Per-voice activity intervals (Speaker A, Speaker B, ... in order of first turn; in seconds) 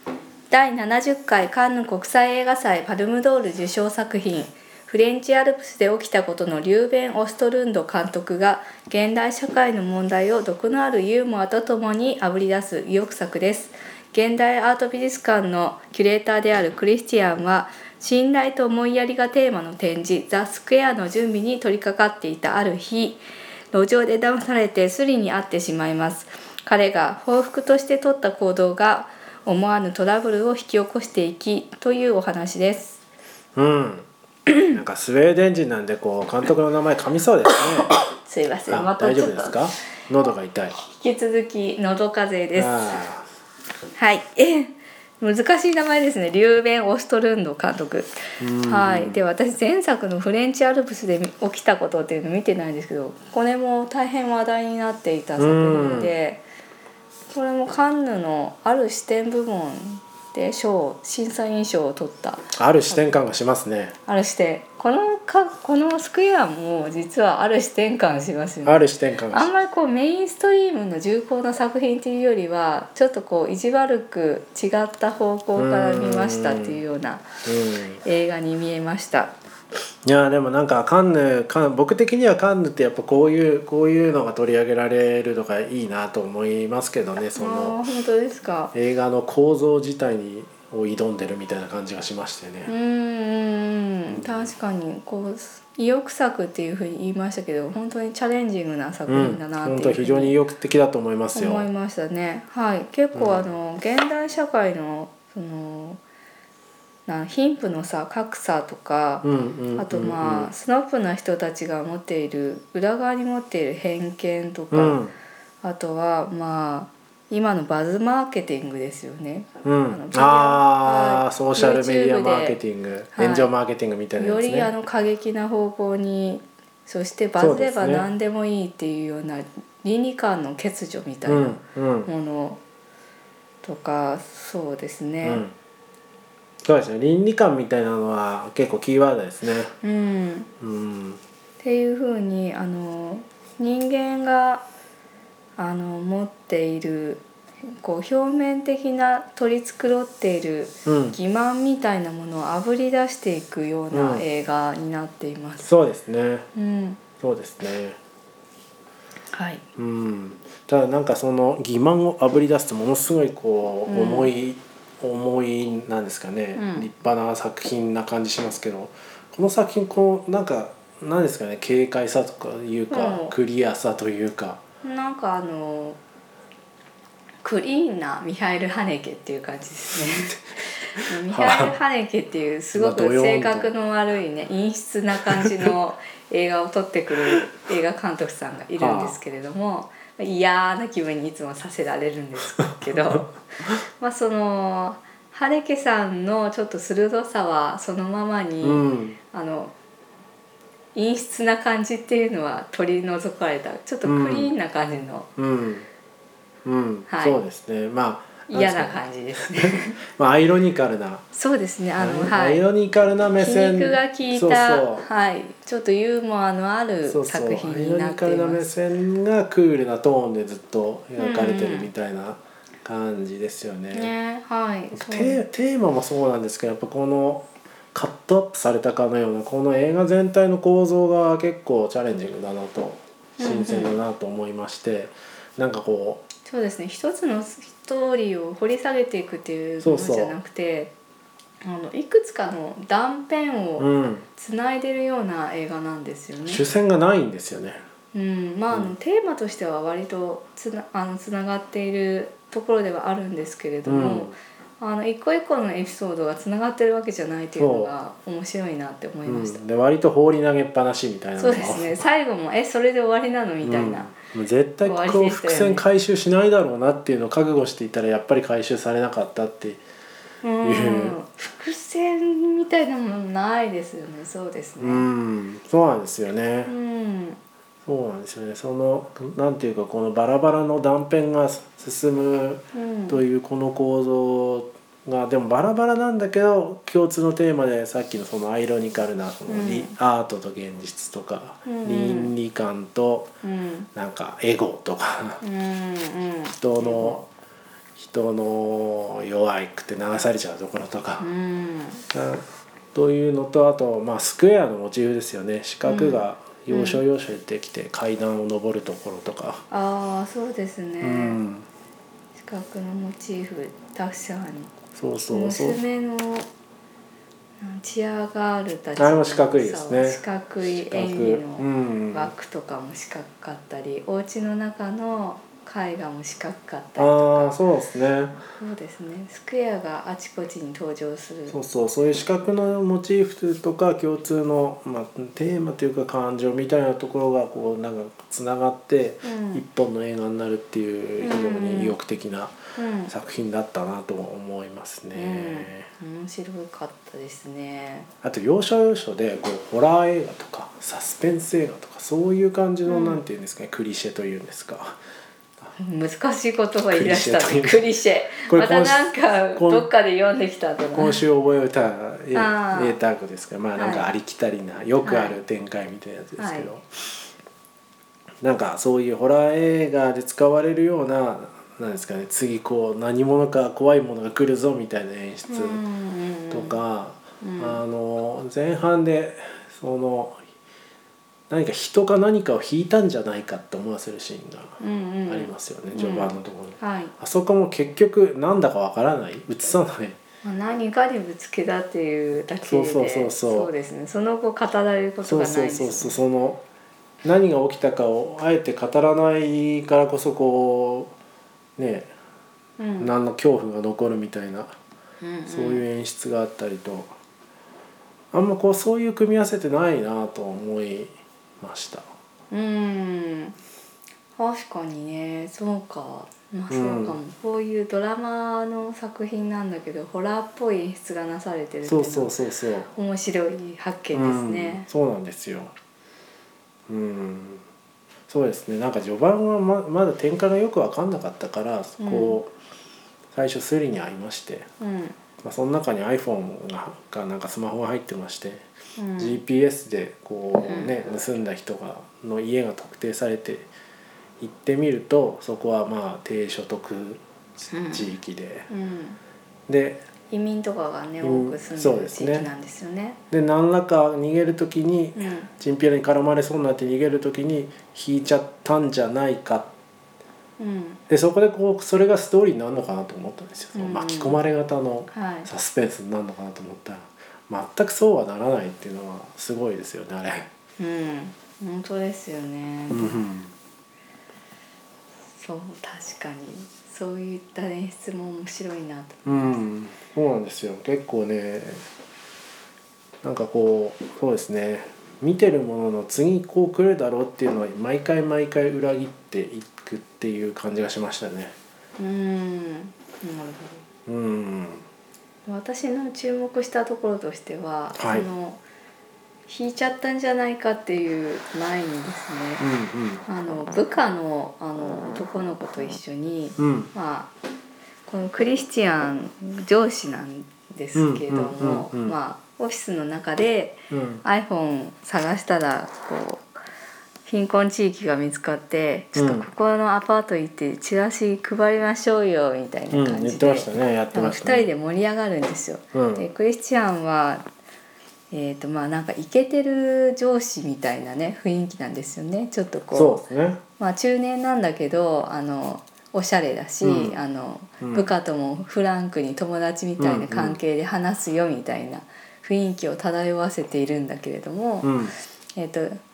Speaker A: 0.5-23.2, 23.7-33.0, 37.9-39.6, 40.8-43.0, 44.0-56.4, 57.3-63.2, 64.1-77.3, 78.0-79.3, 87.3-88.7, 92.7-100.4, 101.3-106.0, 107.1-115.0, 115.6-122.6, 123.2-123.5, 124.2-132.6, 133.6-135.4, 139.8-140.5, 141.6-144.7, 145.6-155.7, 156.6-157.0, 159.3-159.6, 163.9-164.3, 166.6-166.9, 172.9-173.3, 174.8-176.0, 177.4-180.4, 181.0-193.4, 194.0-199.7, 200.9-205.3, 207.1-207.4, 208.5-210.0, 211.3-212.6, 213.4-218.7, 221.2-221.9, 223.9-225.4, 233.4-234.0, 236.4-240.9, 241.6-246.6, 248.1-259.6, 261.4-264.1, 264.8-265.9, 270.4-275.1, 276.7-277.4, 282.7-283.2, 289.5-289.9, 291.7-292.3, 293.4-293.9, 295.4-297.2, 301.2-302.0, 305.8-307.0, 309.7-311.4, 312.4-314.7, 315.3-316.5, 317.6-327.6, 328.6-331.6, 339.2-339.6, 341.2-342.0, 342.8-343.1, 345.1-348.1, 352.9-353.2, 355.8-361.2, 362.3-363.0, 363.8-364.1, 365.0-365.4, 366.4-366.7, 375.5-376.8, 377.4-377.8, 384.8-387.1, 390.4-396.2, 402.8-403.1, 405.2-405.9, 412.5-413.6, 414.4-422.3, 422.9-424.9, 432.0-432.4, 434.8-435.2, 439.0-439.4, 440.6-441.0, 447.7-448.1, 448.7-449.2, 450.3-453.2, 455.2-455.5, 460.6-461.0, 463.8-464.4, 465.1-465.5, 470.8-473.2, 475.4-479.6, 492.0-493.9, 495.5-498.6, 499.5-502.6, 503.3-507.3, 508.1-516.5, 517.3-527.4, 528.3-533.2, 533.8-545.0, 545.5-546.0
Speaker B: 33.6-34.1, 34.6-37.9, 38.7-40.8, 42.5-43.3, 48.4-49.2, 55.4-56.1, 62.6-64.0, 68.7-69.5, 75.6-76.8, 77.5-78.0, 80.0-87.8, 88.7-92.7, 99.1-101.7, 103.1-103.5, 109.2-110.5, 114.7-115.1, 119.7-124.7, 127.4-128.1, 131.3-132.1, 135.2-135.5, 136.7-139.7, 140.6-141.2, 150.9-151.2, 153.9-154.2, 155.6-156.5, 157.2-158.0, 159.8-174.6, 180.0-180.4, 180.9-181.7, 182.8-183.7, 185.2-185.7, 188.8-189.2, 192.6-193.2, 198.6-199.2, 204.1-204.5, 205.4-205.9, 206.7-211.2, 212.0-215.1, 217.1-224.1, 224.9-236.2, 239.8-240.3, 243.8-244.3, 246.4-247.8, 253.9-254.3, 257.6-257.9, 259.2-261.9, 263.6-269.8, 270.6-271.2, 274.8-276.7, 277.9-293.3, 293.9-295.4, 296.6-297.3, 298.0-301.3, 302.1-309.6, 311.0-311.7, 314.9-315.8, 319.0-320.2, 320.9-322.3, 327.0-328.4, 331.5-345.9, 348.2-355.0, 356.9-357.9, 358.4-359.9, 360.9-366.9, 368.4-375.8, 376.5-380.4, 381.5-390.2, 392.6-393.7, 395.2-396.6, 397.2-401.1, 401.8-402.1, 403.0-404.8, 405.5-407.1, 408.3-412.1, 416.7-417.2, 421.9-422.9, 424.1-425.7, 426.9-427.6, 428.3-432.5, 433.3-434.7, 435.4-438.6, 439.2-443.7, 444.4-448.7, 449.7-450.0, 451.2-452.5, 453.3-459.7, 461.1-470.5, 472.9-473.5, 479.2-481.8, 483.2-491.6, 494.1-494.9, 498.0-498.3, 502.6-503.2, 506.6-506.9, 510.9-512.1, 513.9-514.2, 519.2-519.5, 522.9-524.7, 525.9-526.3, 532.9-533.6, 536.8-537.2, 537.8-538.1, 540.0-540.6, 544.8-545.1